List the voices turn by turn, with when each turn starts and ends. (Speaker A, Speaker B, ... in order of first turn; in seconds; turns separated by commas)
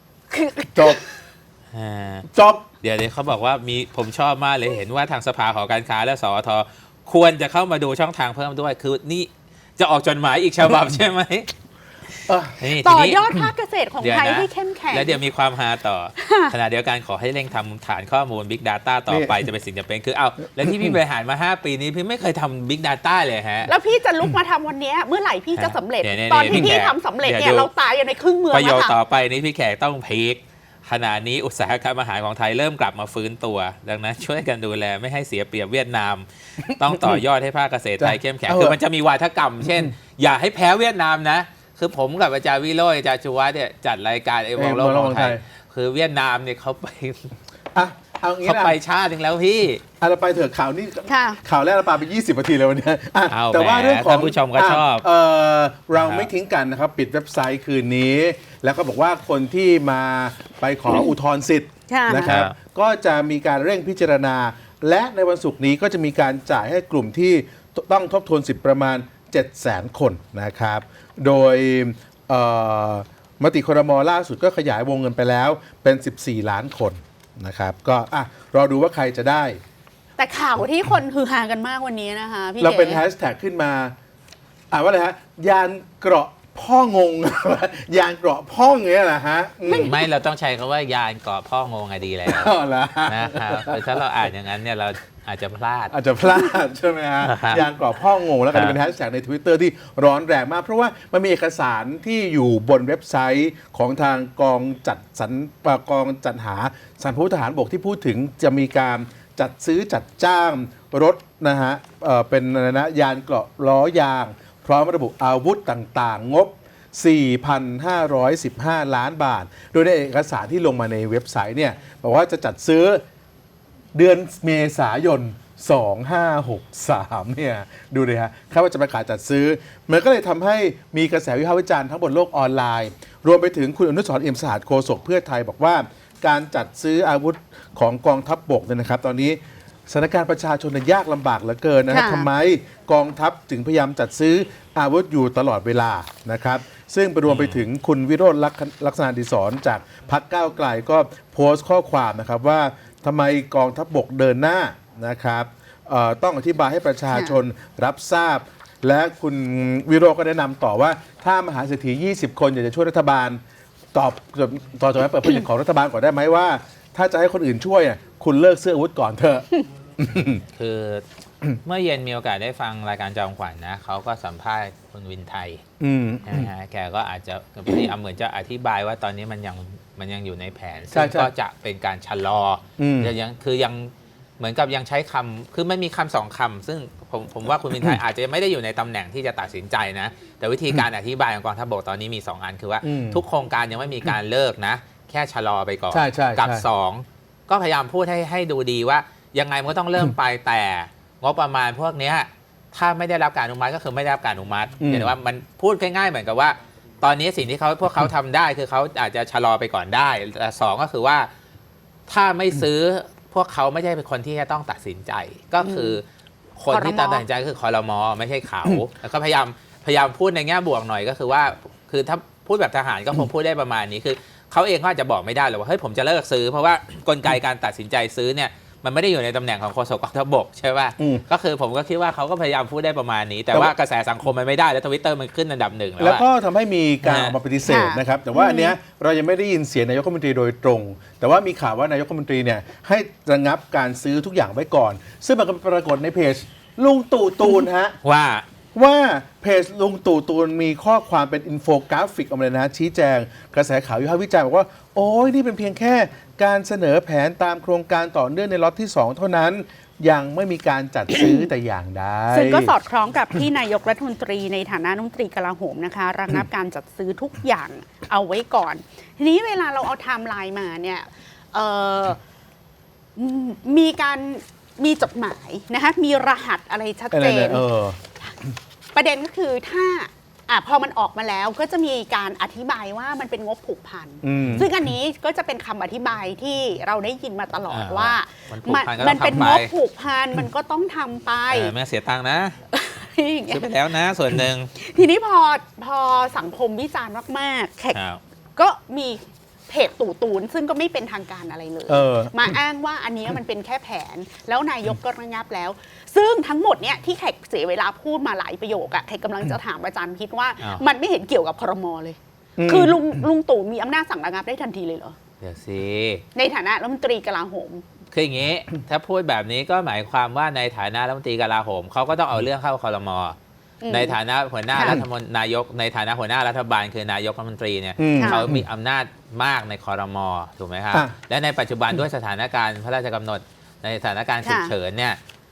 Speaker A: 0.3-1.0, Speaker B: 1.7-2.3, Speaker C: 2.3-2.7, Speaker B: 2.8-11.5, Speaker C: 12.3-12.6, Speaker B: 12.6-13.4, Speaker A: 12.8-15.2, Speaker B: 14.0-23.7, Speaker A: 16.2-16.5, Speaker C: 19.1-19.4, Speaker A: 23.6-29.0, Speaker B: 25.5-27.7, Speaker B: 28.5-47.3, Speaker C: 36.7-37.1, Speaker C: 38.0-38.8, Speaker C: 44.5-45.4, Speaker C: 47.7-48.8, Speaker B: 48.4-49.8, Speaker C: 50.0-79.6, Speaker A: 51.1-51.4, Speaker B: 53.3-55.1, Speaker B: 55.9-56.3, Speaker A: 61.9-62.3, Speaker B: 62.2-62.5, Speaker A: 80.2-83.0, Speaker C: 82.6-83.9, Speaker C: 84.7-89.9, Speaker A: 89.7-89.9, Speaker B: 89.7-92.5, Speaker C: 92.2-93.8, Speaker B: 93.1-95.9, Speaker C: 95.9-123.0, Speaker B: 97.2-97.7, Speaker B: 98.5-98.8, Speaker C: 123.9-163.4, Speaker A: 141.9-142.3, Speaker B: 147.3-147.6, Speaker A: 157.1-157.4, Speaker C: 163.9-170.4, Speaker B: 170.5-171.0, Speaker B: 171.6-175.6, Speaker C: 175.8-176.5, Speaker B: 176.2-211.3, Speaker C: 180.9-181.3, Speaker C: 182.8-183.1, Speaker C: 192.8-193.2, Speaker C: 195.9-196.6, Speaker C: 204.8-205.1, Speaker B: 212.1-216.0, Speaker A: 215.6-216.0, Speaker B: 216.6-236.2, Speaker A: 216.7-217.2, Speaker C: 231.0-231.2, Speaker C: 236.0-248.0, Speaker B: 237.0-237.4, Speaker A: 237.6-238.8, Speaker B: 248.0-248.4, Speaker C: 248.7-262.7, Speaker A: 261.1-261.5, Speaker A: 262.3-272.2, Speaker A: 273.2-277.6, Speaker C: 277.1-278.0, Speaker A: 278.9-291.7, Speaker C: 284.2-284.7, Speaker B: 284.4-284.7, Speaker B: 287.7-289.7, Speaker B: 291.5-292.6, Speaker A: 292.7-293.7, Speaker B: 293.5-294.7, Speaker A: 294.8-298.0, Speaker B: 297.9-298.2, Speaker A: 298.6-315.1, Speaker C: 301.9-302.6, Speaker B: 310.6-310.8, Speaker C: 312.6-313.1, Speaker B: 315.4-316.2, Speaker A: 316.3-317.8, Speaker B: 318.1-323.4, Speaker A: 323.8-324.2, Speaker B: 323.9-335.2, Speaker A: 324.7-325.0, Speaker C: 328.0-328.6, Speaker A: 328.2-328.5, Speaker A: 334.4-334.7